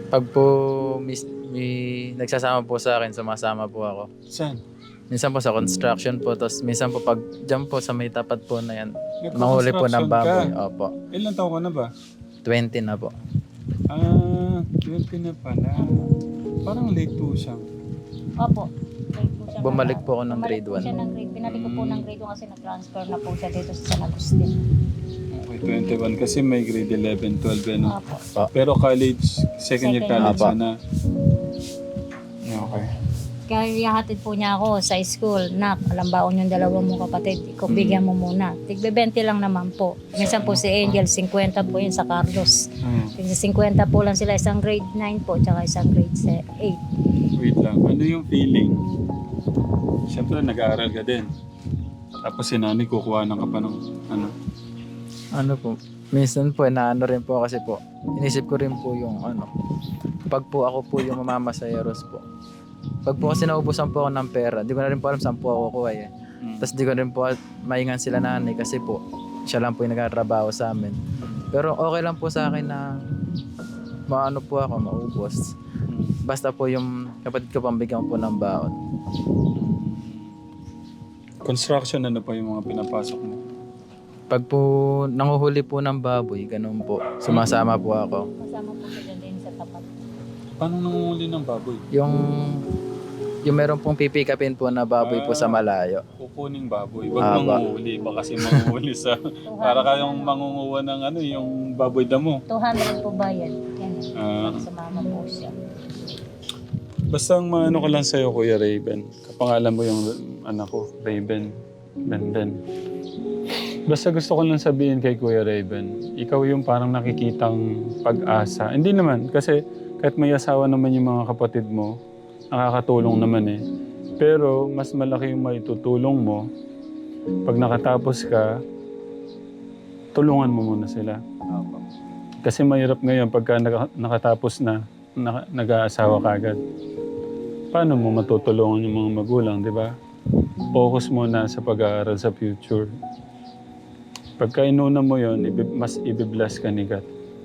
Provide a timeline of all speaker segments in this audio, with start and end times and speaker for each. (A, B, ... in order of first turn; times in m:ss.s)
0:00.1-0:04.1 A
0:04.3-0:04.6 B
0:05.1-0:10.9 A
0:09.2-0:10.5 B
0:11.1-0:11.9 B
0:12.4-0:13.1 A
0:13.9-0:16.0 B
0:16.6-0:17.7 B
0:18.4-0:24.6 C
0:19.6-0:20.9 A
0:21.5-0:22.0 B
0:25.3-0:27.9 B
0:27.9-0:28.2 C
0:28.5-0:30.7 B
0:29.8-0:30.5 C
0:30.2-0:30.5 A
0:32.5-0:32.9 B
0:33.5-0:42.6 C
0:37.7-0:38.0 B
0:40.2-0:41.0 B
0:42.8-0:43.2 B
0:43.2-0:46.8 C
0:47.4-0:48.8 B
0:50.1-0:51.3 B
0:52.2-0:54.3 B
0:55.3-0:59.5 A
1:00.3-1:02.2 A
1:03.0-1:11.0 A
1:06.4-1:06.7 B
1:11.2-1:11.5 B
1:11.5-1:12.9 A
1:14.1-1:15.5 A
1:15.9-1:16.2 B
1:16.2-1:18.8 A
1:19.6-1:20.4 B
1:21.4-1:23.4 B
1:24.3-1:28.3 A
1:28.4-1:29.9 C
1:30.6-1:31.8 B
1:31.9-1:32.6 A
1:33.4-1:36.0 A
1:35.0-1:35.6 B
1:36.2-1:42.4 B
1:37.2-1:37.6 A
1:39.5-1:40.3 C
1:42.5-1:45.5 C
1:44.2-1:44.6 B
1:47.1-1:51.5 B
1:52.1-1:52.6 B
1:53.9-2:02.0 B
2:02.5-2:03.6 B
2:04.2-2:06.4 B
2:07.4-2:08.5 B
2:10.1-2:11.2 B
2:11.5-2:11.8 A
2:12.4-2:16.6 B
2:17.7-2:19.9 B
2:20.7-2:22.9 B
2:24.4-2:27.1 B